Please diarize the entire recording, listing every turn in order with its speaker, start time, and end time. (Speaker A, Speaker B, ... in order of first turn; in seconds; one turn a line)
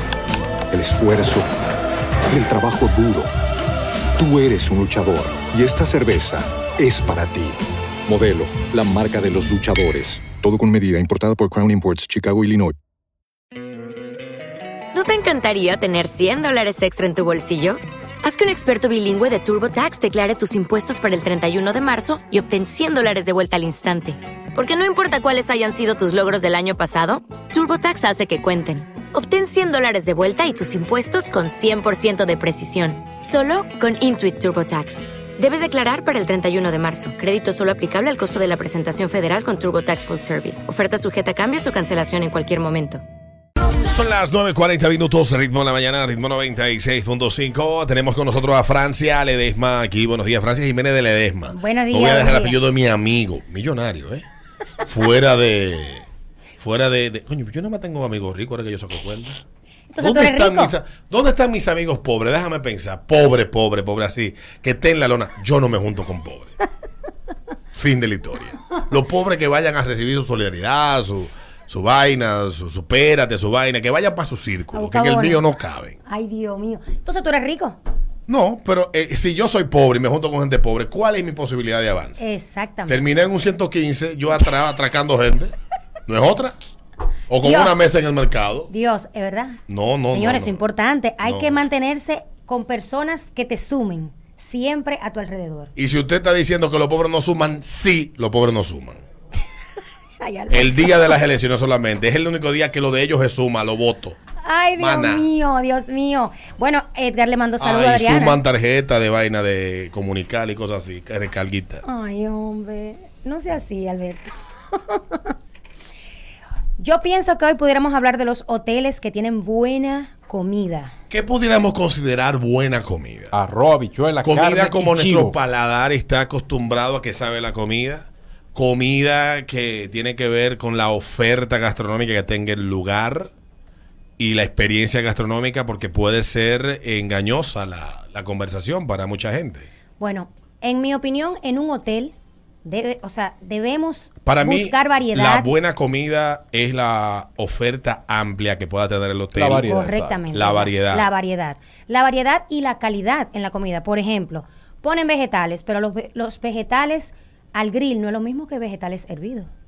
Speaker A: 0.7-1.5
Speaker A: 2.3-3.3
Speaker A: 4.2-12.7
Speaker B: 14.9-43.0
Speaker C: 43.8-54.2
Speaker D: 51.5-52.6
Speaker C: 54.9-56.0
Speaker C: 56.6-59.4
Speaker D: 59.9-60.7
Speaker C: 60.0-66.5
Speaker C: 67.7-76.0
Speaker D: 74.7-75.4
Speaker D: 76.0-77.8
Speaker C: 78.3-82.2
Speaker D: 82.2-83.0
Speaker C: 82.9-85.5
Speaker C: 86.1-86.5
Speaker C: 87.3-88.7
Speaker D: 87.4-87.9
Speaker D: 88.7-89.6
Speaker C: 89.7-90.6
Speaker D: 90.1-95.7
Speaker C: 91.2-91.6
Speaker C: 95.8-99.0
Speaker D: 100.2-101.2
Speaker C: 100.5-104.2
Speaker D: 104.4-108.4
Speaker C: 104.8-105.3
Speaker C: 107.6-111.8
Speaker D: 111.8-115.3
Speaker D: 116.8-120.9
Speaker C: 121.1-123.3
Speaker E: 123.3-125.4
Speaker C: 124.2-133.3
Speaker C: 134.2-139.7
Speaker D: 140.0-145.5
Speaker C: 144.2-149.7
Speaker E: 149.3-150.4
Speaker D: 149.6-159.5
Speaker C: 150.3-151.1